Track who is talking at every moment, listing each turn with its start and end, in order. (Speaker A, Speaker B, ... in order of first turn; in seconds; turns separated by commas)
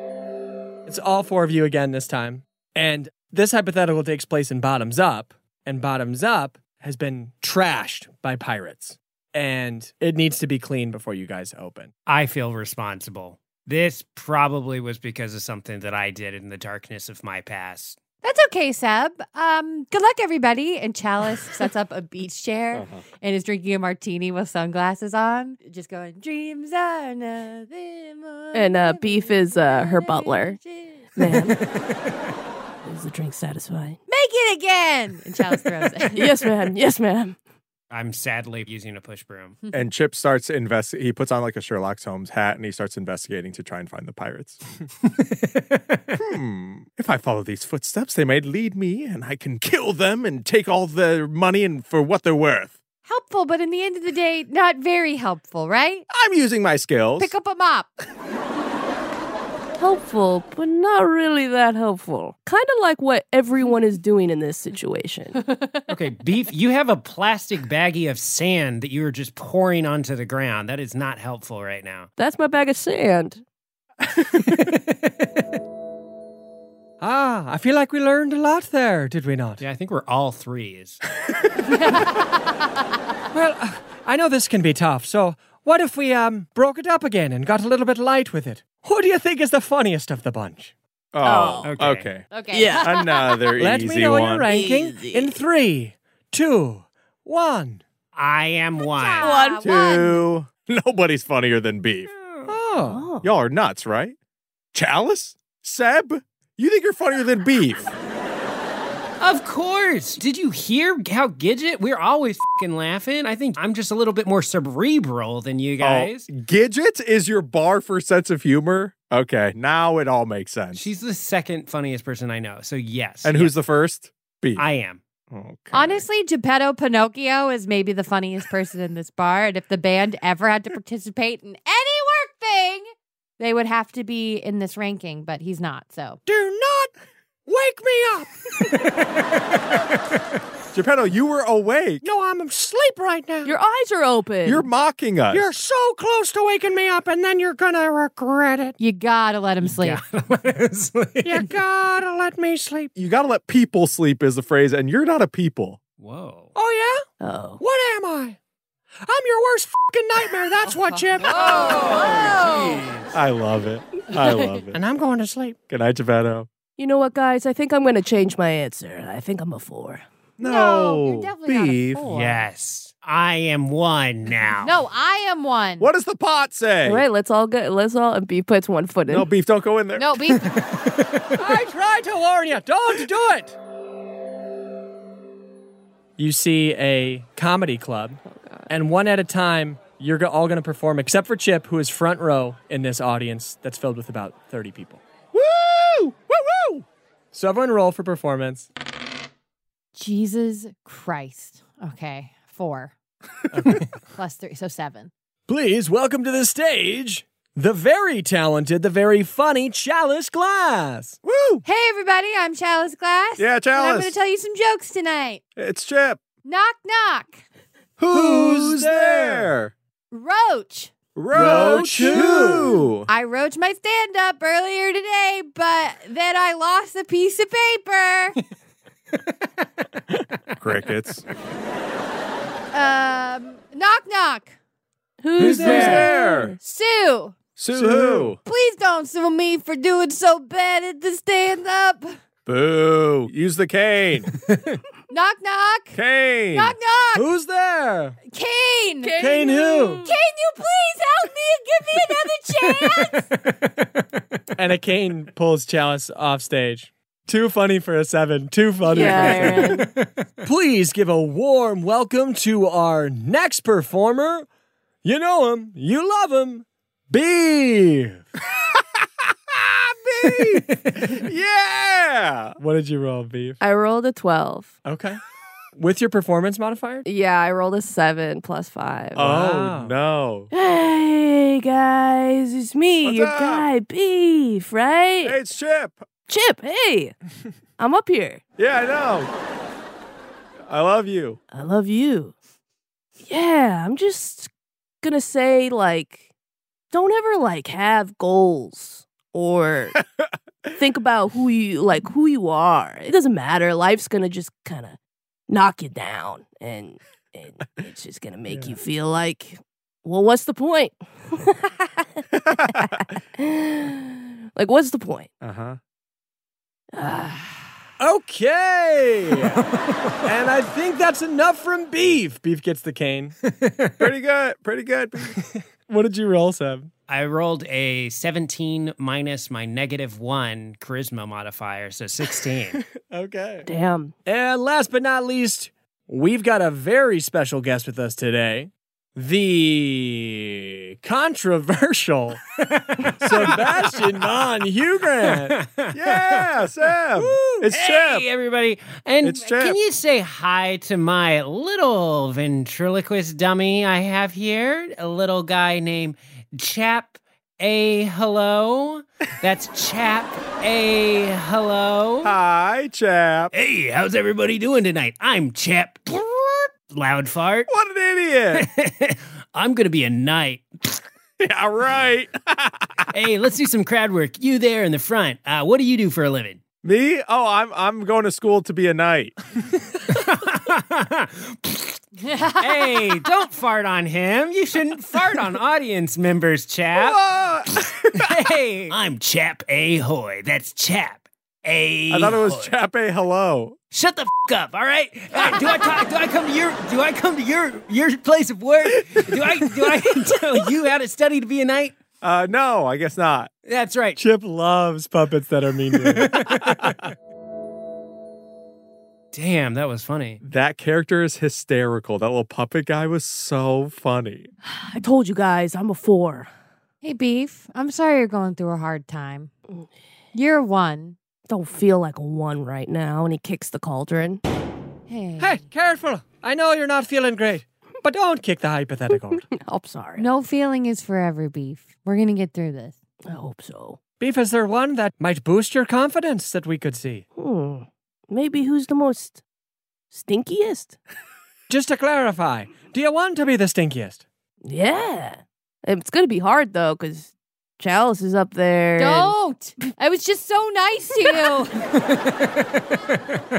Speaker A: 0.9-11.9, Speaker B: 12.1-18.0, Speaker C: 18.2-31.2, Speaker D: 22.7-23.0, Speaker E: 28.5-30.6, Speaker E: 31.2-31.6, Speaker E: 32.8-34.0, Speaker C: 34.1-36.5, Speaker E: 36.1-37.4, Speaker B: 37.9-39.6, Speaker D: 39.7-44.6, Speaker B: 45.0-46.2, Speaker D: 46.2-52.8, Speaker C: 53.1-56.1, Speaker D: 56.1-57.3, Speaker C: 57.2-57.9, Speaker E: 59.8-65.4, Speaker C: 65.4-65.8, Speaker B: 65.9-72.1, Speaker E: 72.2-73.4, Speaker B: 74.5-75.1, Speaker A: 77.0-79.6, Speaker B: 79.6-81.0, Speaker C: 81.7-82.4, Speaker A: 83.3-90.7, Speaker D: 91.1-94.5, Speaker E: 91.2-91.8, Speaker B: 91.6-92.1, Speaker C: 92.3-93.6, Speaker E: 92.5-93.1, Speaker A: 93.6-97.8, Speaker E: 94.5-95.4, Speaker B: 98.1-99.4, Speaker C: 98.8-100.3, Speaker E: 99.2-99.9, Speaker D: 99.6-102.1, Speaker A: 102.5-103.1, Speaker E: 102.9-103.3, Speaker D: 103.2-104.2, Speaker D: 104.7-107.9, Speaker B: 109.2-116.3, Speaker D: 115.8-120.9, Speaker B: 120.7-123.6, Speaker D: 123.2-124.7, Speaker B: 124.6-125.0, Speaker D: 125.3-126.1, Speaker C: 125.7-132.9, Speaker C: 133.4-136.2, Speaker A: 136.3-136.9, Speaker A: 137.5-138.8, Speaker D: 140.7-142.0, Speaker A: 142.0-143.5, Speaker E: 143.4-144.7, Speaker D: 144.4-145.5, Speaker A: 145.3-148.8, Speaker C: 148.8-150.0, Speaker B: 149.6-151.5, Speaker A: 151.2-152.9, Speaker D: 153.0-155.8, Speaker B: 156.0-156.5, Speaker A: 156.6-157.1, Speaker E: 157.2-157.6, Speaker A: 157.6-158.4, Speaker A: 159.1-162.4, Speaker C: 160.7-162.8, Speaker B: 161.5-163.1, Speaker D: 163.1-164.8, Speaker A: 164.7-165.6, Speaker D: 165.7-166.5, Speaker E: 166.8-170.1, Speaker D: 170.4-172.1, Speaker C: 170.4-172.5, Speaker B: 172.1-174.8, Speaker C: 174.6-175.9, Speaker D: 175.8-177.1, Speaker E: 176.8-179.3, Speaker D: 179.1-180.3, Speaker C: 180.0-180.5, Speaker B: 180.5-181.3, Speaker A: 181.3-183.6, Speaker A: 186.2-195.0, Speaker D: 195.3-196.8, Speaker A: 197.3-198.7, Speaker C: 199.9-202.9, Speaker A: 203.5-203.9, Speaker C: 204.1-205.1, Speaker A: 205.5-211.2, Speaker D: 211.2-211.6, Speaker C: 211.7-215.4, Speaker D: 213.4-214.2, Speaker D: 215.6-216.2, Speaker C: 216.4-217.4, Speaker D: 218.0-219.7, Speaker A: 218.1-219.5, Speaker C: 220.1-220.9, Speaker D: 221.2-223.1, Speaker A: 221.3-222.7, Speaker C: 222.0-228.4, Speaker D: 230.6-231.2, Speaker C: 232.7-234.6, Speaker E: 235.2-236.6, Speaker B: 235.4-236.1, Speaker A: 235.4-235.9, Speaker D: 235.6-236.6, Speaker C: 235.9-237.4, Speaker D: 237.6-238.4, Speaker A: 237.7-238.4, Speaker C: 238.4-242.2, Speaker D: 242.5-244.3, Speaker B: 244.4-244.8, Speaker C: 245.1-246.0, Speaker D: 245.9-246.8, Speaker C: 246.5-247.3, Speaker A: 247.1-248.2, Speaker C: 248.3-249.2, Speaker E: 249.0-250.2, Speaker A: 249.2-250.0, Speaker C: 250.0-253.3, Speaker B: 252.7-254.4, Speaker A: 254.6-259.8, Speaker E: 258.9-259.9, Speaker B: 259.0-260.3, Speaker A: 260.4-264.5, Speaker A: 265.0-268.2, Speaker D: 268.6-272.6, Speaker A: 272.6-273.6, Speaker E: 273.6-274.8, Speaker A: 274.9-275.2, Speaker A: 275.8-277.1, Speaker E: 277.1-279.2, Speaker A: 279.1-280.0, Speaker D: 279.1-280.5, Speaker E: 280.5-285.4, Speaker D: 283.0-283.7, Speaker D: 285.2-286.1, Speaker E: 286.3-287.1, Speaker E: 287.8-288.4, Speaker D: 288.6-289.3, Speaker D: 290.6-291.4, Speaker E: 291.5-292.3, Speaker E: 293.2-294.5, Speaker E: 295.0-296.3, Speaker E: 296.9-300.0, Speaker E: 300.7-305.0, Speaker E: 305.5-315.3, Speaker D: 312.4-312.9, Speaker D: 315.4-315.8, Speaker E: 316.9-317.6, Speaker A: 318.0-319.6, Speaker B: 319.8-320.1, Speaker A: 320.2-323.4, Speaker B: 323.4-324.1, Speaker D: 324.0-325.4, Speaker A: 325.4-326.9, Speaker B: 327.1-332.8, Speaker A: 333.1-333.6, Speaker E: 333.6-334.1, Speaker A: 334.3-342.4, Speaker B: 342.6-343.6, Speaker A: 343.2-345.6, Speaker B: 345.4-346.5, Speaker D: 345.9-348.3, Speaker A: 347.2-347.6, Speaker B: 347.7-362.4, Speaker D: 349.2-349.8, Speaker D: 362.2-363.5, Speaker B: 363.5-367.7, Speaker D: 367.7-368.7, Speaker B: 368.5-371.0, Speaker D: 371.4-373.1, Speaker B: 373.1-376.6, Speaker D: 376.8-379.4, Speaker B: 380.0-382.0, Speaker C: 382.3-383.0, Speaker B: 382.6-387.2, Speaker D: 386.9-388.4, Speaker B: 388.1-392.8, Speaker D: 392.1-393.8, Speaker B: 393.9-402.0, Speaker D: 402.2-403.5, Speaker B: 403.7-404.2, Speaker A: 404.2-406.4, Speaker B: 406.0-407.1, Speaker D: 406.5-407.1, Speaker B: 409.3-410.4, Speaker D: 410.4-414.5, Speaker E: 414.9-416.5, Speaker C: 417.0-419.5, Speaker C: 420.3-421.2, Speaker E: 421.5-424.4, Speaker C: 425.1-425.7, Speaker A: 425.4-429.4, Speaker E: 429.1-430.3, Speaker C: 430.2-433.0, Speaker E: 433.3-434.0, Speaker A: 434.2-437.3, Speaker E: 437.4-439.4, Speaker E: 440.1-441.0, Speaker A: 441.7-444.2, Speaker E: 444.7-449.4, Speaker C: 449.0-451.8, Speaker B: 452.0-452.8